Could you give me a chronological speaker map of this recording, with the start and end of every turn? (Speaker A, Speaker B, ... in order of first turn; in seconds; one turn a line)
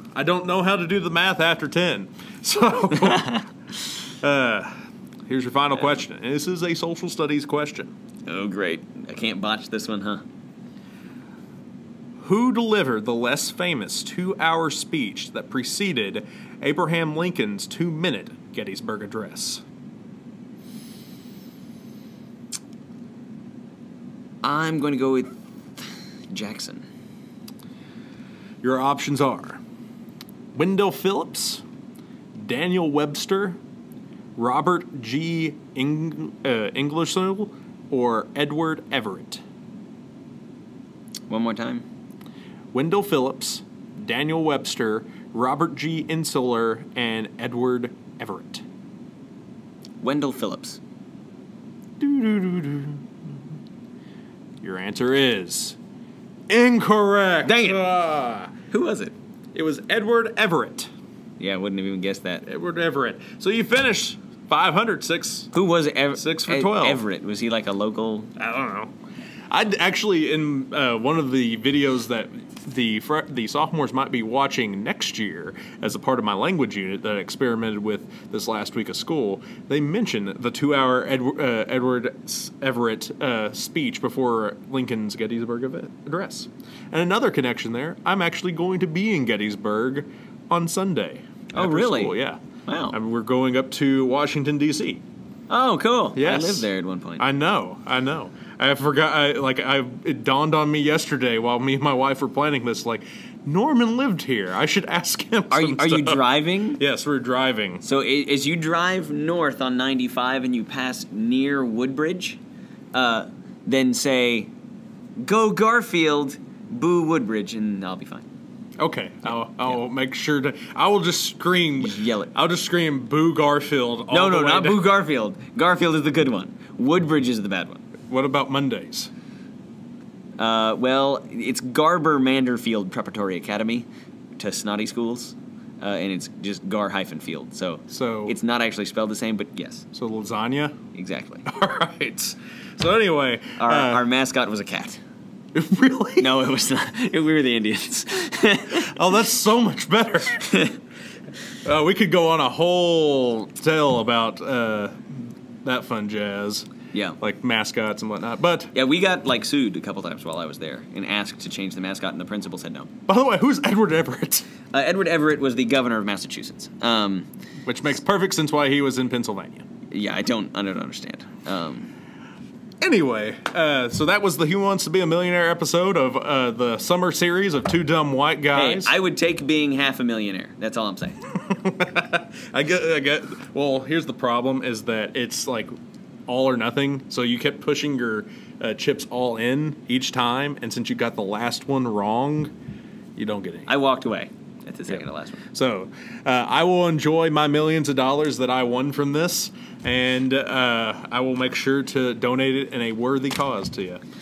Speaker A: 0.1-3.5
Speaker A: 4.2-4.8
Speaker A: 5.3-7.9
Speaker B: 8.3-10.2
Speaker A: 12.2-19.6
Speaker B: 24.4-26.9
Speaker A: 28.6-29.6
Speaker A: 30.5-31.6
Speaker A: 32.4-33.6
Speaker A: 34.4-39.4
Speaker B: 41.3-41.9
Speaker A: 42.7-48.6
Speaker B: 50.0-50.8
Speaker A: 52.0-53.0
Speaker A: 54.6-55.8
Speaker A: 56.5-58.5
Speaker B: 57.5-57.9
Speaker B: 58.7-59.1
Speaker A: 59.5-60.9
Speaker B: 61.4-62.5
Speaker A: 62.5-65.5
Speaker B: 65.5-68.3
Speaker A: 66.1-67.0
Speaker A: 68.4-68.9
Speaker A: 69.5-92.4
Speaker B: 91.5-93.0
Speaker A: 92.9-95.0
Speaker B: 95.5-97.2
Speaker A: 96.1-107.8
Speaker B: 105.5-106.8
Speaker B: 107.8-112.4
Speaker B: 112.9-114.5
Speaker B: 115.2-118.3
Speaker A: 118.8-124.9
Speaker B: 121.8-122.3
Speaker B: 124.1-127.8
Speaker A: 128.1-129.1
Speaker B: 130.4-139.8
Speaker A: 137.9-138.4
Speaker A: 139.9-140.8
Speaker B: 140.9-141.4
Speaker A: 141.4-144.1
Speaker B: 143.6-145.0
Speaker A: 145.5-146.4
Speaker B: 146.2-148.9
Speaker A: 148.7-150.7
Speaker A: 151.6-156.7
Speaker B: 156.9-157.2
Speaker A: 157.2-158.7
Speaker B: 158.7-162.9
Speaker A: 163.1-164.5
Speaker B: 164.7-167.3
Speaker A: 167.7-169.7
Speaker B: 169.9-171.9
Speaker A: 172.8-178.9
Speaker B: 178.5-181.2
Speaker A: 181.3-185.7
Speaker A: 186.3-192.5
Speaker A: 193.2-193.7
Speaker B: 193.7-195.4
Speaker A: 194.9-204.0